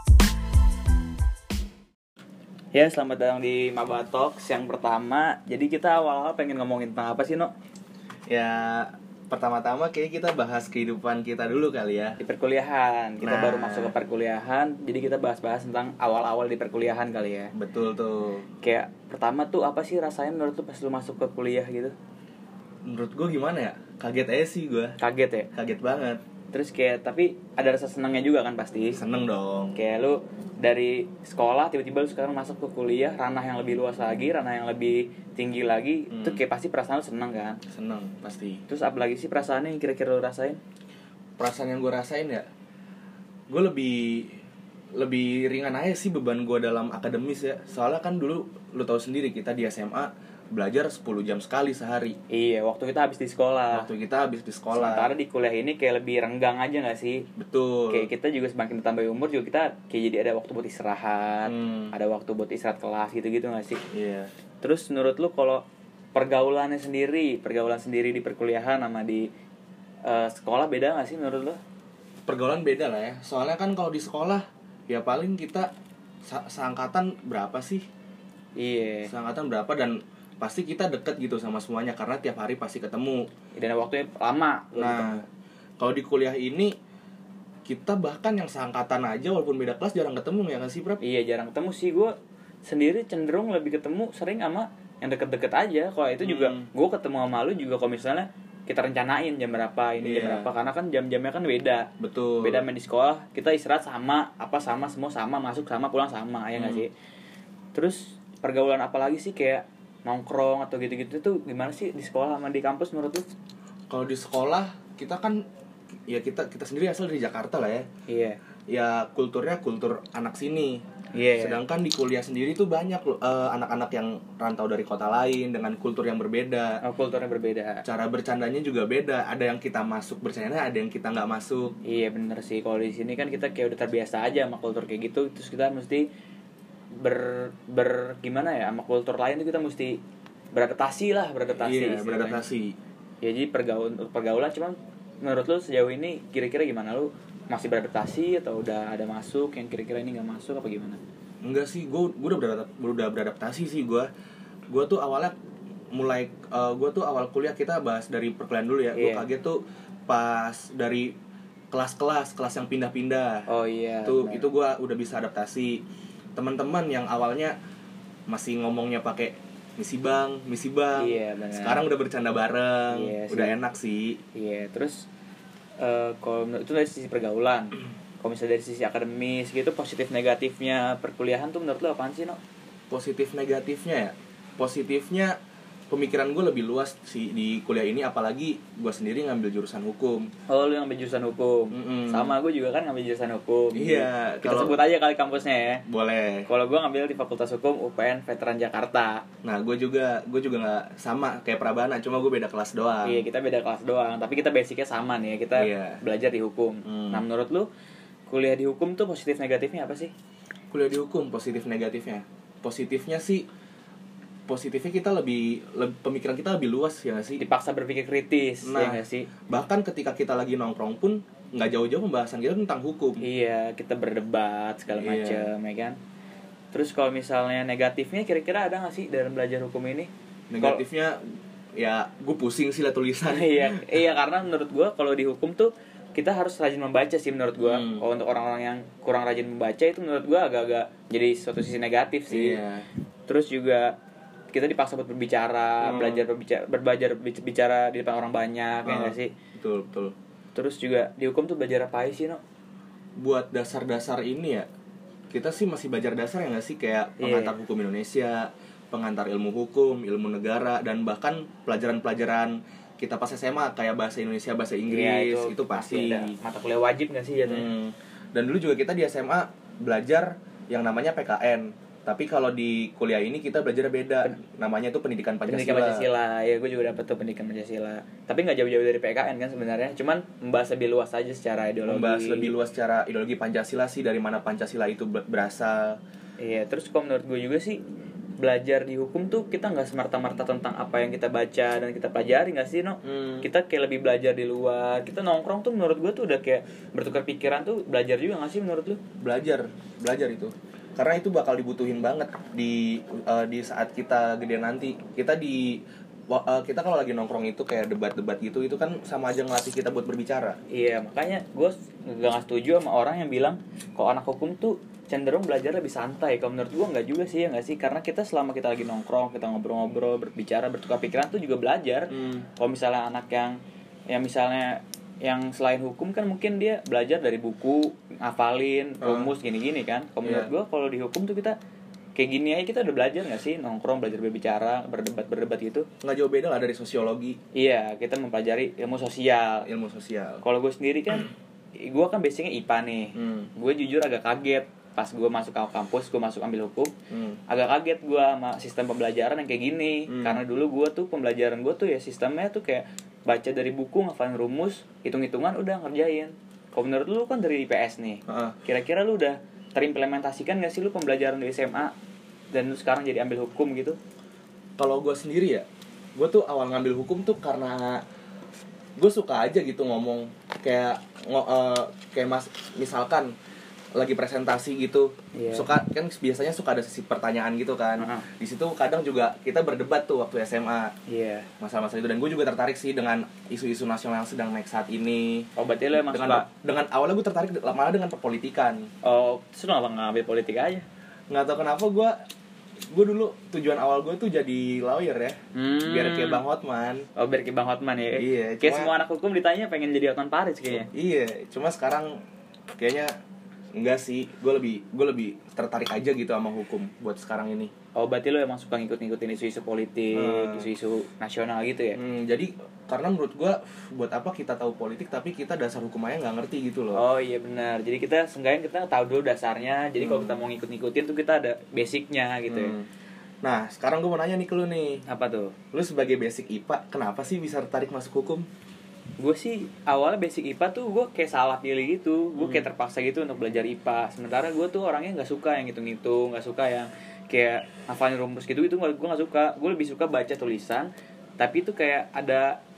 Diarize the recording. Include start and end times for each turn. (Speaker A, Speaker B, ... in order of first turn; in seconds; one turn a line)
Speaker A: 2.7-7.5
Speaker B: 8.3-12.2
Speaker A: 12.2-17.5
Speaker B: 13.2-13.9
Speaker B: 17.6-18.4
Speaker A: 18.6-21.9
Speaker B: 22.9-25.0
Speaker A: 25.0-25.5
Speaker B: 25.5-26.2
Speaker A: 26.5-29.0
Speaker B: 28.9-29.7
Speaker A: 29.8-37.6
Speaker B: 36.1-36.4
Speaker B: 37.7-38.6
Speaker A: 38.7-40.6
Speaker B: 41.4-42.5
Speaker B: 43.5-44.4
Speaker B: 45.0-52.2
Speaker A: 52.3-53.9
Speaker B: 53.7-55.1
Speaker A: 54.7-57.3
Speaker B: 57.4-58.1
Speaker A: 57.9-63.8
Speaker B: 61.5-61.9
Speaker B: 63.9-64.3
Speaker A: 64.6-69.3
Speaker A: 70.0-71.6
Speaker B: 72.3-75.7
Speaker B: 76.2-77.8
Speaker A: 78.6-79.1
Speaker B: 79.1-83.3
Speaker A: 83.5-85.3
Speaker B: 84.8-85.2
Speaker B: 85.8-86.7
Speaker B: 87.7-91.0
Speaker A: 91.0-101.9
Speaker B: 96.2-96.7
Speaker B: 100.0-100.5
Speaker B: 102.0-102.7
Speaker A: 102.4-106.9
Speaker B: 106.6-106.9
Speaker A: 107.7-113.3
Speaker B: 113.9-115.4
Speaker B: 116.1-117.9
Speaker A: 118.1-118.4
Speaker B: 118.7-120.8
Speaker A: 121.1-121.6
Speaker B: 121.4-126.8
Speaker A: 126.8-127.8
Speaker B: 127.8-131.8
Speaker A: 131.8-136.1
Speaker A: 136.9-140.0
Speaker A: 140.5-142.4
Speaker B: 141.6-142.8
Speaker A: 143.2-151.0
Speaker B: 151.4-154.1
Speaker B: 154.7-155.3
Speaker B: 155.9-161.2
Speaker A: 158.9-159.3
Speaker B: 161.7-163.5
Speaker A: 163.5-164.5
Speaker B: 164.1-165.8
Speaker B: 166.4-167.5
Speaker B: 168.3-174.2
Speaker A: 171.0-171.8
Speaker A: 172.9-173.5
Speaker A: 174.3-175.1
Speaker A: 175.8-182.4
Speaker B: 182.9-185.4
Speaker B: 185.9-190.3
Speaker A: 190.5-195.8
Speaker B: 191.7-192.3
Speaker B: 193.7-194.8
Speaker B: 195.9-196.5
Speaker A: 196.5-199.2
Speaker B: 199.4-203.2
Speaker A: 203.0-207.7
Speaker B: 205.6-206.0
Speaker B: 206.8-207.2
Speaker A: 208.3-210.1
Speaker B: 210.7-213.5
Speaker B: 214.5-217.4
Speaker A: 217.4-219.3
Speaker B: 218.6-223.2
Speaker A: 223.2-226.0
Speaker B: 224.9-225.5
Speaker A: 226.7-230.1
Speaker B: 230.5-231.2
Speaker B: 231.8-233.8
Speaker A: 233.3-242.6
Speaker B: 237.6-238.1
Speaker B: 242.3-242.9
Speaker A: 243.3-243.9
Speaker A: 244.5-249.3
Speaker B: 245.8-246.2
Speaker B: 248.8-250.2
Speaker A: 250.6-252.4
Speaker B: 253.2-254.7
Speaker B: 255.3-266.4
Speaker A: 257.2-257.6
Speaker A: 264.9-267.7
Speaker B: 267.4-276.1
Speaker A: 275.5-282.5
Speaker B: 281.9-286.0
Speaker A: 286.4-287.8
Speaker A: 288.4-299.0
Speaker B: 293.0-293.5
Speaker B: 299.2-310.6
Speaker A: 310.7-323.6
Speaker B: 322.1-322.5
Speaker A: 324.1-331.6
Speaker B: 329.0-329.3
Speaker B: 330.2-330.5
Speaker A: 332.2-335.9
Speaker B: 336.0-337.4
Speaker A: 337.6-339.7
Speaker B: 339.6-340.4
Speaker A: 340.4-346.9
Speaker B: 343.1-343.5
Speaker B: 347.1-347.4
Speaker A: 347.5-361.9
Speaker B: 350.1-350.4
Speaker B: 358.3-358.6
Speaker A: 362.5-364.0
Speaker B: 364.8-368.0
Speaker B: 369.0-373.3
Speaker B: 374.0-380.9
Speaker A: 375.3-375.7
Speaker A: 378.0-378.3
Speaker A: 381.1-381.5
Speaker B: 381.6-388.9
Speaker A: 385.6-386.5
Speaker A: 389.0-390.9
Speaker B: 391.3-392.1
Speaker B: 392.9-397.1
Speaker A: 395.6-396.4
Speaker A: 397.2-400.9
Speaker B: 398.2-398.9
Speaker B: 400.7-402.1
Speaker B: 402.7-403.1
Speaker B: 403.8-407.7
Speaker A: 408.0-412.0
Speaker B: 410.1-410.7
Speaker B: 412.0-417.0
Speaker A: 416.9-422.7
Speaker B: 420.0-420.4
Speaker B: 422.5-422.9
Speaker B: 423.4-425.0
Speaker A: 425.1-425.6
Speaker B: 425.7-428.5
Speaker A: 429.2-442.6
Speaker B: 432.4-432.7